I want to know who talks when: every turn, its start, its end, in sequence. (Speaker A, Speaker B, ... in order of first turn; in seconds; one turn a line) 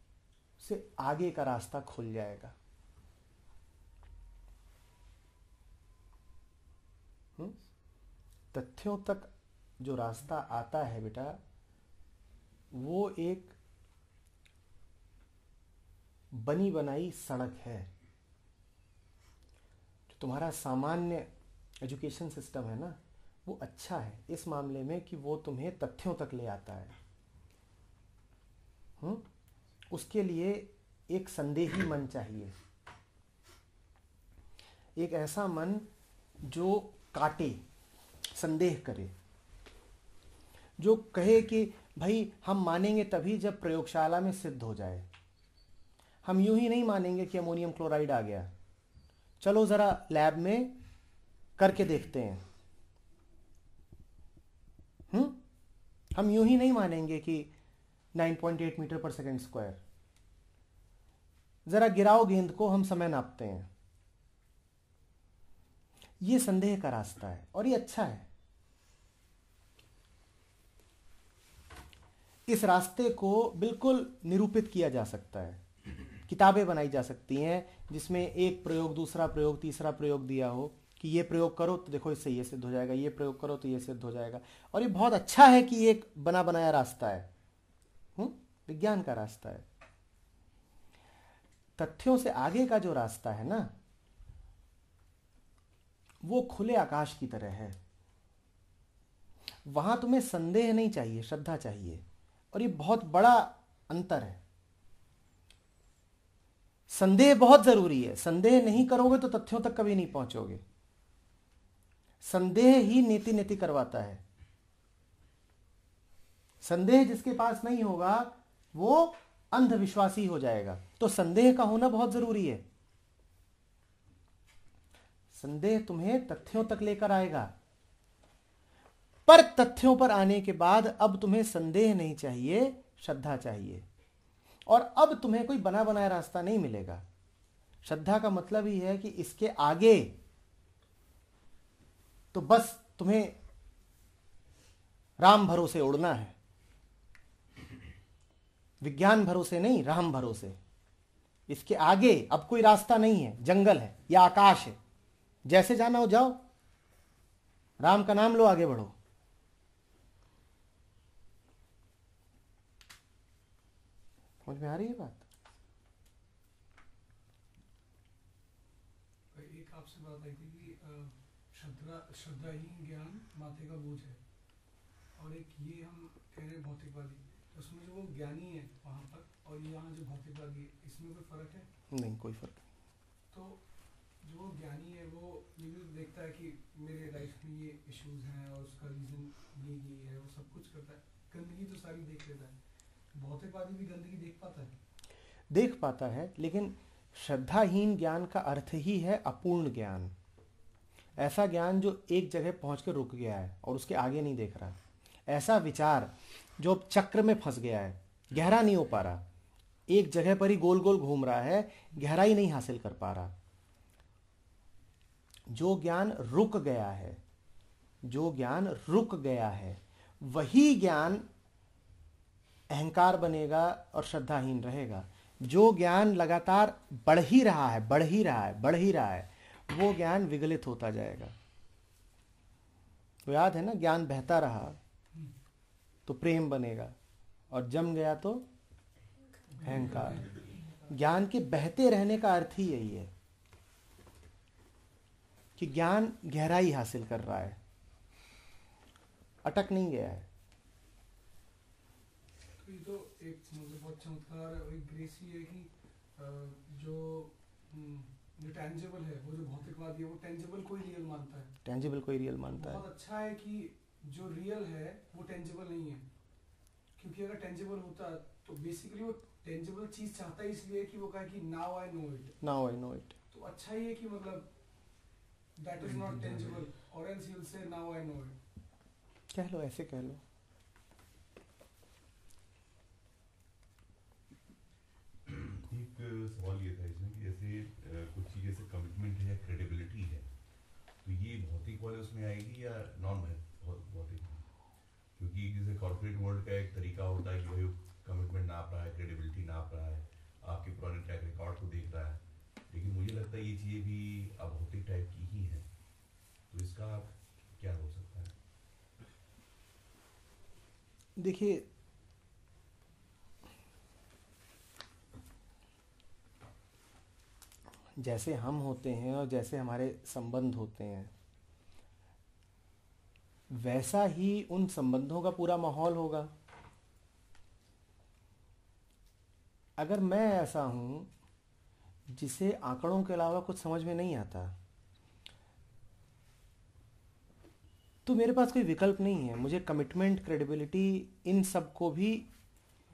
Speaker A: 0.6-2.5
Speaker A: 8.5-11.4
Speaker A: 12.7-13.6
Speaker A: 16.3-17.9
Speaker A: 20.1-21.3
Speaker A: 21.8-26.9
Speaker A: 29.9-32.5
Speaker A: 35.0-35.9
Speaker A: 36.4-37.6
Speaker A: 38.4-39.1
Speaker A: 40.8-45.1
Speaker A: 46.2-48.5
Speaker A: 49.4-50.8
Speaker A: 51.6-52.4
Speaker A: 55.1-55.4
Speaker A: 56.1-57.5
Speaker A: 58.1-59.8
Speaker A: 61.7-63.7
Speaker A: 66.2-68.3
Speaker A: 72.5-75.6
Speaker A: 76.3-87.3
Speaker A: 88.2-89.7
Speaker A: 91.8-93.7
Speaker A: 96.2-97.8
Speaker A: 99.7-104.4
Speaker A: 106.9-110.6
Speaker A: 112.2-114.2
Speaker A: 116.6-122.7
Speaker A: 125.3-127.5
Speaker A: 129.3-133.8
Speaker A: 134.7-137.0
Speaker A: 137.8-140.2
Speaker A: 142.3-143.4
Speaker A: 145.2-146.3
Speaker A: 148.8-150.6
Speaker A: 151.5-154.8
Speaker A: 155.5-156.4
Speaker A: 157.8-158.9
Speaker A: 164.4-165.2
Speaker B: 169.3-174.2
Speaker B: 175.2-181.7
Speaker A: 181.9-182.6
Speaker B: 183.3-183.6
Speaker B: 184.2-192.6
Speaker B: 193.1-194.8
Speaker A: 195.5-200.1
Speaker A: 201.2-204.8
Speaker A: 205.3-209.2
Speaker A: 209.9-213.3
Speaker A: 215.5-217.2
Speaker A: 218.0-221.2
Speaker A: 222.7-231.3
Speaker A: 233.3-234.8
Speaker A: 236.1-236.9
Speaker A: 237.5-238.5
Speaker A: 239.6-240.3
Speaker A: 240.9-243.1
Speaker A: 245.6-247.6
Speaker A: 249.4-250.3
Speaker B: 252.6-261.5
Speaker A: 261.6-262.8
Speaker B: 262.5-266.1
Speaker B: 267.0-272.4
Speaker A: 272.4-273.1
Speaker B: 273.3-274.5
Speaker B: 275.6-278.4
Speaker A: 279.3-280.2
Speaker C: 285.3-290.3
Speaker C: 291.0-294.5
Speaker C: 295.2-305.6
Speaker C: 306.5-308.3
Speaker A: 311.2-311.7
Speaker A: 318.0-321.1
Speaker A: 323.5-326.3
Speaker A: 329.8-331.1
Speaker A: 332.1-334.6
Speaker A: 338.1-342.3